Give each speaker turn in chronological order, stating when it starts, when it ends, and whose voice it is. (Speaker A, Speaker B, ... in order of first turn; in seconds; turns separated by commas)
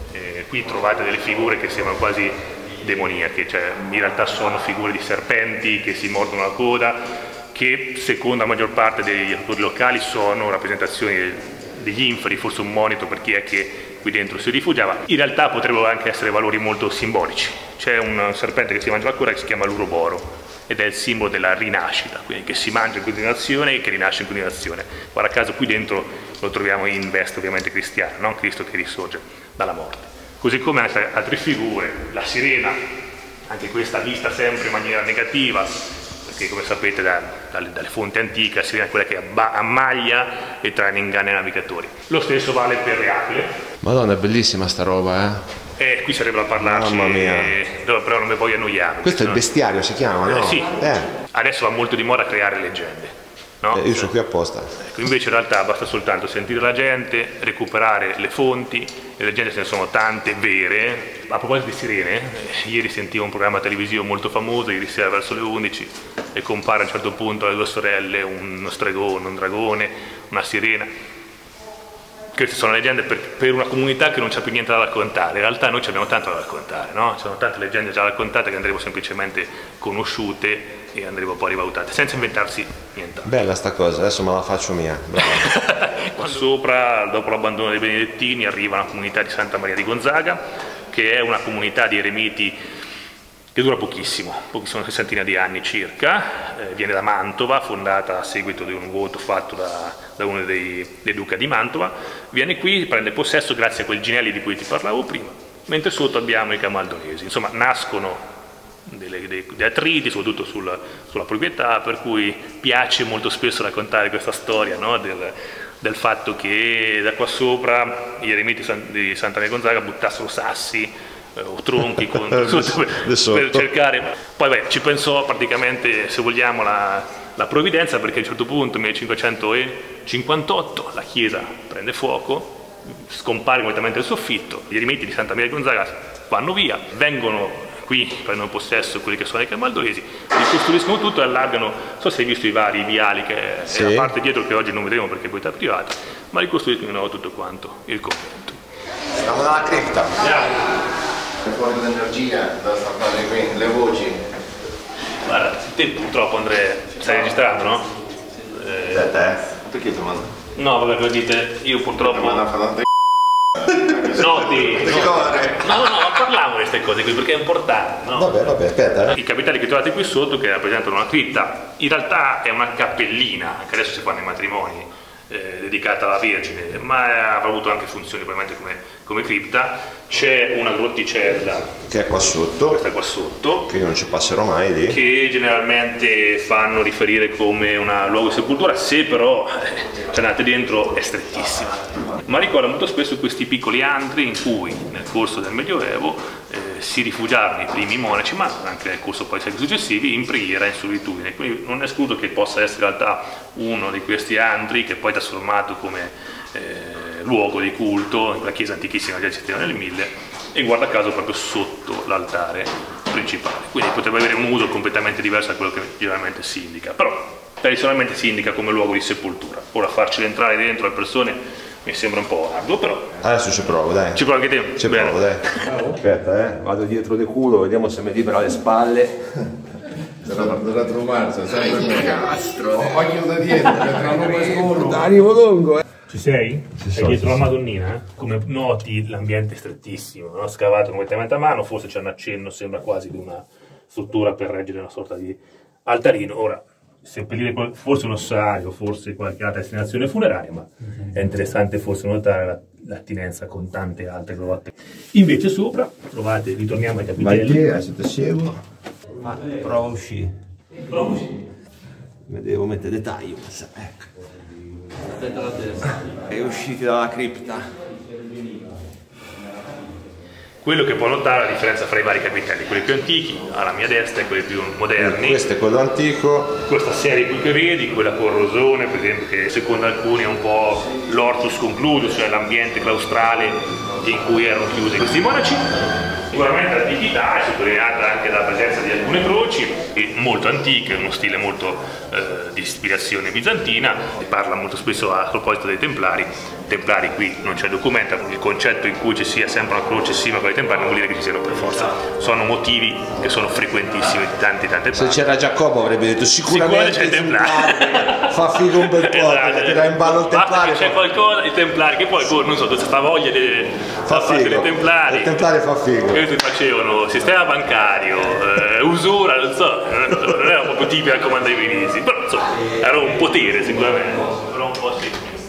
Speaker A: 0.1-32.8, Speaker A: 33.5-43.5, Speaker B: 43.8-45.4, Speaker A: 45.8-49.4, Speaker B: 46.6-47.5, Speaker B: 49.0-51.1, Speaker A: 50.2-54.1, Speaker B: 53.7-54.7, Speaker A: 54.8-70.9, Speaker A: 72.3-83.3, Speaker B: 83.2-85.5, Speaker A: 85.4-92.6, Speaker A: 93.5-108.2, Speaker A: 108.9-148.6, Speaker B: 122.0-123.7, Speaker B: 143.7-144.1, Speaker B: 149.2-150.2, Speaker A: 150.2-150.8, Speaker C: 151.4-154.2, Speaker A: 155.2-159.2, Speaker B: 158.9-159.4, Speaker C: 159.7-160.3, Speaker A: 160.6-162.5, Speaker C: 162.5-162.8, Speaker A: 164.1-168.3, Speaker B: 164.8-165.6, Speaker B: 168.1-169.2, Speaker A: 169.1-181.8, Speaker B: 181.9-182.8, Speaker A: 182.7-183.7, Speaker B: 183.7-185.0, Speaker A: 184.9-223.2, Speaker B: 223.2-224.2, Speaker A: 224.1-225.2, Speaker B: 224.8-229.2, Speaker C: 230.2-235.1, Speaker B: 234.7-235.8, Speaker A: 236.1-257.6, Speaker B: 236.9-237.3, Speaker B: 257.2-258.6, Speaker B: 259.2-260.3, Speaker A: 260.9-261.4, Speaker B: 262.3-264.1, Speaker B: 266.3-267.8, Speaker A: 270.6-275.4, Speaker B: 275.0-276.6, Speaker A: 276.7-285.7, Speaker A: 286.3-305.3, Speaker B: 304.9-311.0, Speaker A: 306.5-315.4, Speaker B: 314.1-316.2, Speaker A: 316.1-325.3